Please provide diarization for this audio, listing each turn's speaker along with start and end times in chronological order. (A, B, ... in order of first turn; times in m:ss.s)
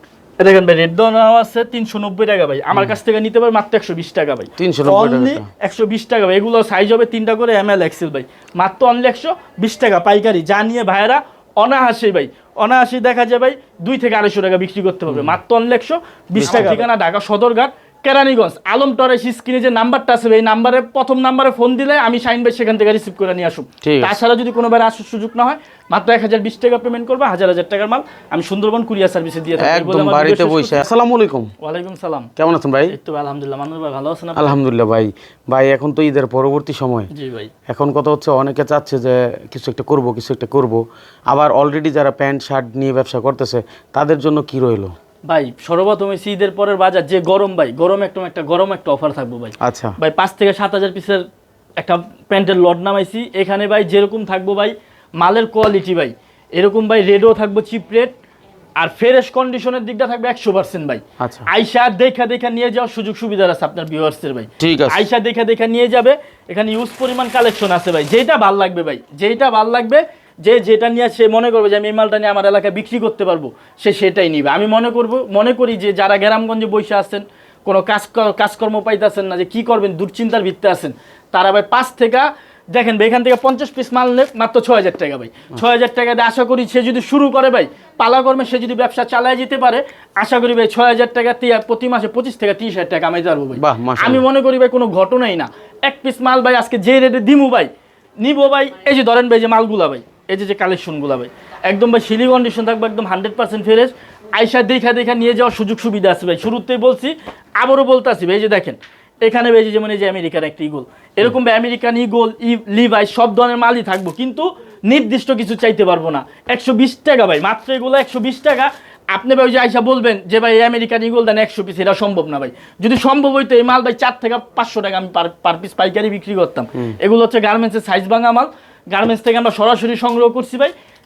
0:00.4-0:30.8 A
0:04.6-0:05.5 B
0:15.1-0:15.4 B
0:16.4-0:16.8 B
0:23.8-0:24.2 B
0:29.6-0:31.5 B
0:31.6-0:32.3 A
0:32.4-0:33.0 B
0:32.9-0:34.6 A
0:34.4-0:37.1 B
0:37.1-0:37.5 A
0:37.7-0:44.9 B
0:45.3-0:51.2 A
0:49.6-0:50.0 B
0:51.8-0:58.2 A
0:58.8-1:37.7 A
1:01.2-1:01.5 B
1:04.6-1:05.0 B
1:33.6-1:34.2 B
1:38.2-2:10.7 A